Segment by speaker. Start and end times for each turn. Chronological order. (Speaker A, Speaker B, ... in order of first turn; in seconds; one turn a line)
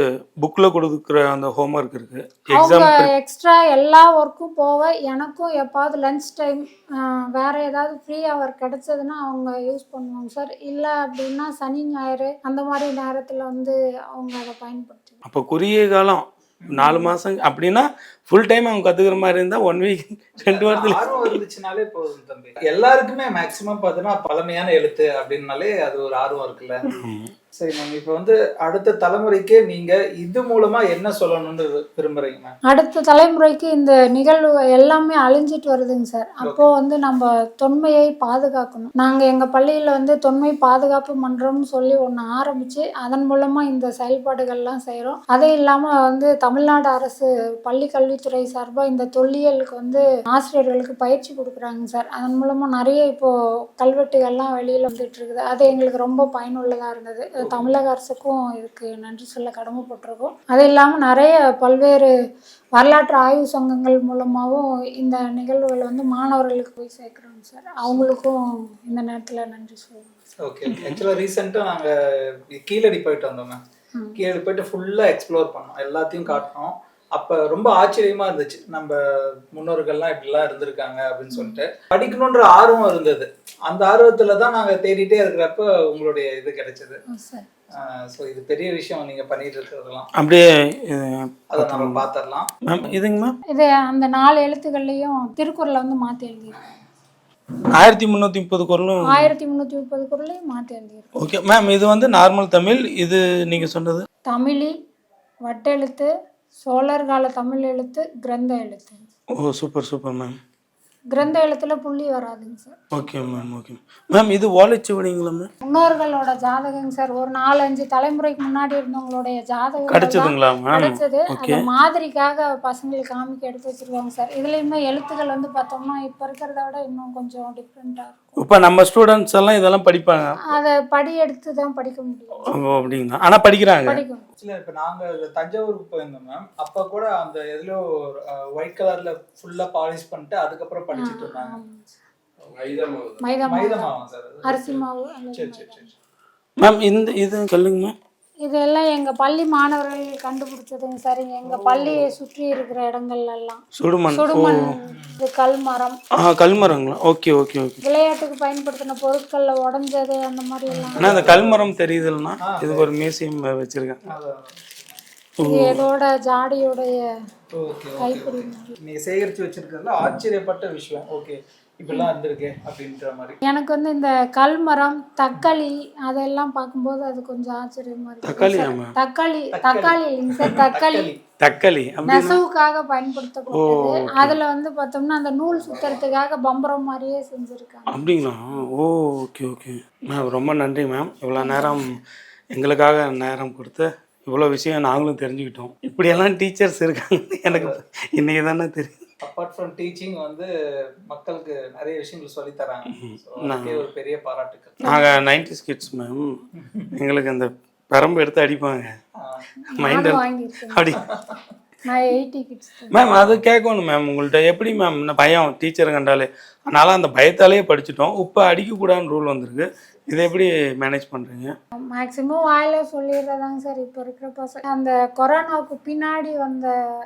Speaker A: 0.4-3.1
Speaker B: 2.5-15.2
Speaker A: 15.2-21.3
Speaker C: 16.6-17.0
Speaker C: 20.4-26.8
Speaker A: 26.9-27.3
Speaker C: 27.6-32.5
Speaker B: 32.7-62.1
Speaker C: 36.4-36.7
Speaker C: 57.4-57.7
Speaker B: 62.8-70.1
Speaker C: 70.4-73.6
Speaker C: 74.2-87.0
Speaker B: 81.3-81.6
Speaker B: 87.1-87.5
Speaker C: 87.7-90.1
Speaker A: 90.2-92.0
Speaker C: 91.5-93.0
Speaker A: 92.7-93.3
Speaker B: 93.5-96.6
Speaker A: 97.7-99.3
Speaker B: 99.1-101.1
Speaker A: 101.2-104.0
Speaker B: 104.3-104.7
Speaker B: 105.5-106.1
Speaker B: 106.6-109.1
Speaker A: 109.3-110.3
Speaker B: 111.1-112.7
Speaker A: 112.9-115.5
Speaker B: 115.6-128.4
Speaker A: 119.9-121.6
Speaker A: 128.4-130.2
Speaker B: 130.5-132.5
Speaker A: 132.5-134.0
Speaker B: 133.9-134.2
Speaker C: 134.4-141.6
Speaker B: 140.9-141.8
Speaker C: 142.4-145.8
Speaker B: 143.2-143.9
Speaker B: 144.4-145.9
Speaker A: 146.6-147.9
Speaker B: 148.4-156.0
Speaker C: 151.4-152.1
Speaker A: 153.8-154.6
Speaker C: 154.9-155.2
Speaker A: 156.2-157.8
Speaker B: 157.8-161.2
Speaker C: 160.7-161.7
Speaker A: 161.0-164.0
Speaker C: 162.4-163.1
Speaker C: 164.1-165.0
Speaker A: 165.4-165.8
Speaker B: 165.4-167.0
Speaker C: 167.5-173.4
Speaker B: 168.0-168.7
Speaker B: 173.4-181.1
Speaker A: 178.2-178.9
Speaker C: 179.5-181.2
Speaker A: 181.4-182.4
Speaker B: 182.0-188.1
Speaker A: 183.5-184.4
Speaker C: 185.7-185.9
Speaker A: 187.9-191.9
Speaker B: 191.4-191.8
Speaker A: 192.5-199.0
Speaker C: 197.5-197.8
Speaker C: 199.2-200.5
Speaker C: 201.1-204.8
Speaker A: 202.9-203.8
Speaker B: 204.8-205.2
Speaker A: 204.8-206.3
Speaker C: 206.6-206.9
Speaker A: 206.9-208.9
Speaker B: 209.6-210.9
Speaker A: 209.8-211.0
Speaker C: 210.9-211.4
Speaker B: 211.8-213.0
Speaker A: 212.9-221.5
Speaker C: 213.1-213.4
Speaker B: 221.9-226.7